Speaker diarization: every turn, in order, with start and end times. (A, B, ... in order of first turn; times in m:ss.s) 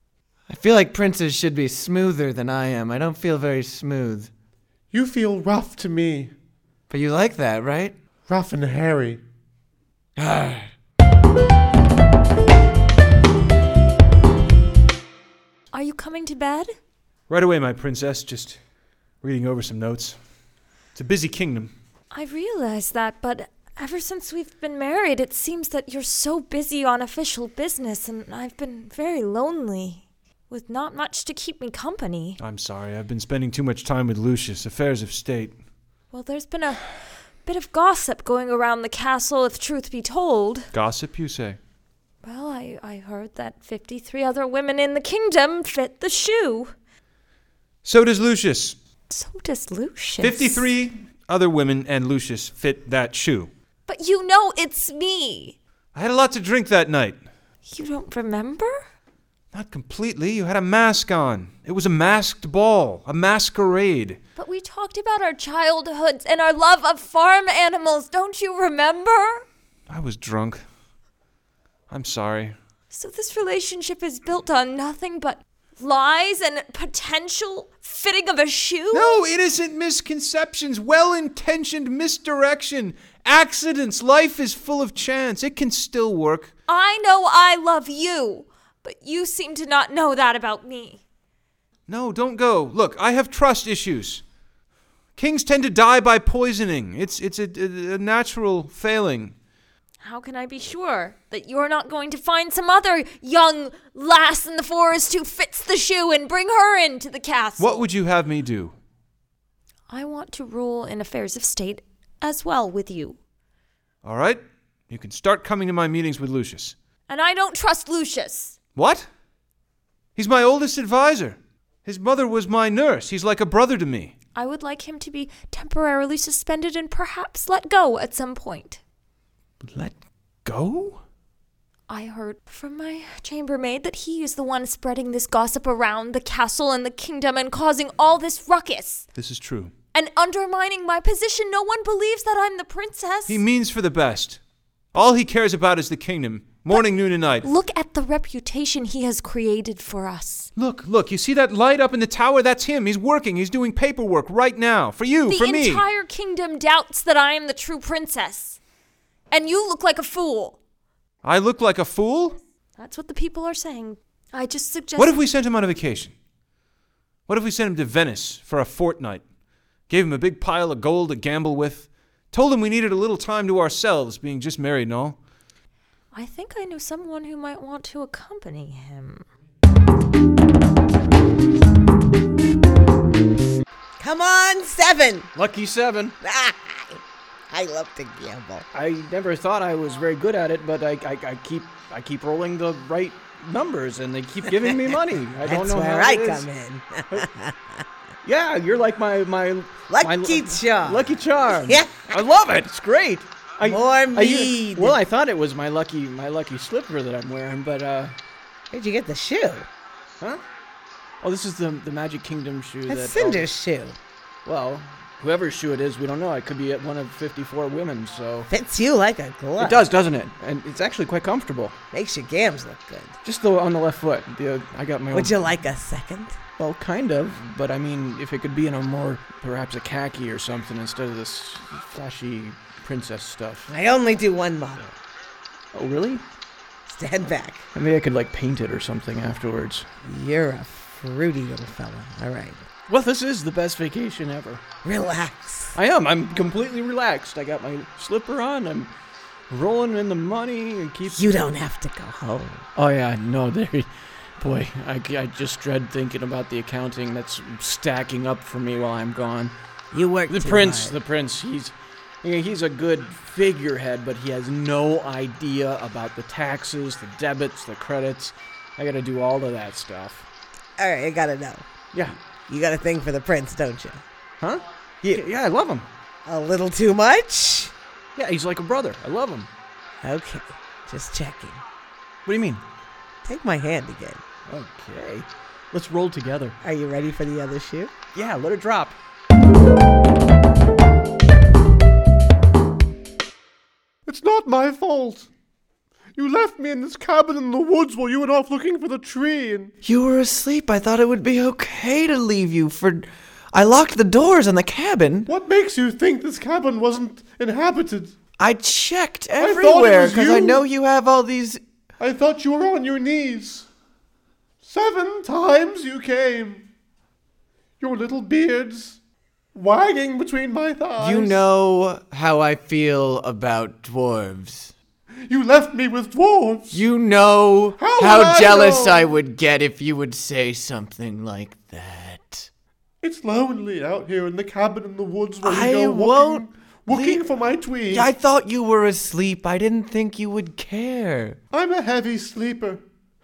0:00.5-0:04.3 A
0:04.9-0:06.3 B
0:06.9-0:08.0 A
0:08.3-0:09.2 B
0:10.2-0:10.7 A
0:15.7-0:16.7 C
0:17.3-0:18.6 D
0:19.2-0:20.2 D
0:20.9-0:21.7 D
0:22.1-0:32.4 C
0:32.4-0:35.6 D
0:36.1-0:40.7 C
0:40.7-0:41.6 D
0:42.2-0:46.7 C
0:47.8-0:48.8 D
0:49.1-0:50.7 C
0:50.2-0:53.5 D
0:53.9-0:55.6 C
0:55.9-0:57.2 D
0:57.6-0:58.8 C
0:59.5-1:04.2 D
1:04.4-1:09.4 C
1:09.9-1:10.6 D
1:11.9-1:12.6 D
1:12.9-1:19.2 C
1:18.9-1:26.5 D
1:26.7-1:31.0 C
1:31.9-1:34.2 D
1:35.2-1:39.4 D
1:40.0-1:47.8 C
1:47.6-1:48.8 D
1:49.9-1:53.2 C
1:54.0-1:56.8 D
1:57.1-1:58.6 C
1:58.8-1:59.1 D
2:00.2-2:04.1 D
2:04.4-2:08.8 C
2:09.6-2:11.0 D
2:11.9-2:19.0 C
2:19.1-2:19.7 D
2:19.9-2:23.4 C
2:23.3-2:24.4 D
2:24.9-2:27.5 D
2:27.4-2:30.5 C
2:30.6-2:35.8 D
2:35.3-2:38.6 C
2:39.3-2:40.6 C
2:41.2-2:42.4 D
2:42.8-2:45.2 C
2:45.0-2:46.1 D
2:47.3-2:49.2 D
2:49.9-2:55.2 D
2:56.1-2:59.2 C
3:04.0-3:05.3 E
3:05.4-3:06.1 F
3:06.2-3:07.0 E
3:07.5-3:08.6 E
3:08.8-3:16.4 F
3:14.4-3:17.7 E
3:18.2-3:28.1 F
3:19.9-3:22.2 E
3:23.6-3:25.0 E
3:28.7-3:29.7 E
3:31.2-3:33.4 F
3:32.9-3:34.0 E
3:34.4-3:38.5 F
3:38.5-3:39.9 E
3:39.6-3:41.8 F
3:41.9-3:43.2 E
3:43.2-3:45.3 F
3:45.1-3:46.4 E
3:46.6-3:53.7 F
3:53.7-3:54.9 E
3:55.7-3:56.2 F
3:56.9-3:57.7 E
3:57.8-3:59.8 F
4:00.0-4:02.6 E
4:02.9-4:04.6 F
4:04.8-4:05.8 E
4:05.8-4:08.9 F
4:09.5-4:11.3 F
4:11.0-4:12.6 E
4:12.8-4:13.9 F
4:14.4-4:19.5 F
4:19.9-4:21.0 E
4:20.3-4:30.2 F
4:30.8-4:31.6 E
4:32.5-4:34.0 E
4:34.4-4:35.9 F
4:36.2-4:37.7 E
4:38.2-4:39.5 F
4:40.0-4:41.6 E
4:42.2-4:42.6 F
4:43.2-4:44.2 E
4:44.5-4:46.6 F
4:46.6-4:47.9 E
4:48.1-4:48.9 F
4:54.1-4:55.3 B
4:56.2-4:59.7 B
4:59.8-5:05.3 A
5:05.3-5:08.1 B
5:08.4-5:11.6 A
5:09.4-5:10.6 B
5:12.0-5:13.7 B
5:14.6-5:16.7 B
5:17.8-5:19.0 B
5:19.5-5:21.4 B
5:21.0-5:24.7 A
5:25.2-5:26.8 B
5:26.7-5:32.5 A
5:27.8-5:29.1 B
5:33.0-5:38.1 B
5:35.4-5:37.2 A
5:37.9-5:41.4 A
5:41.5-5:42.8 B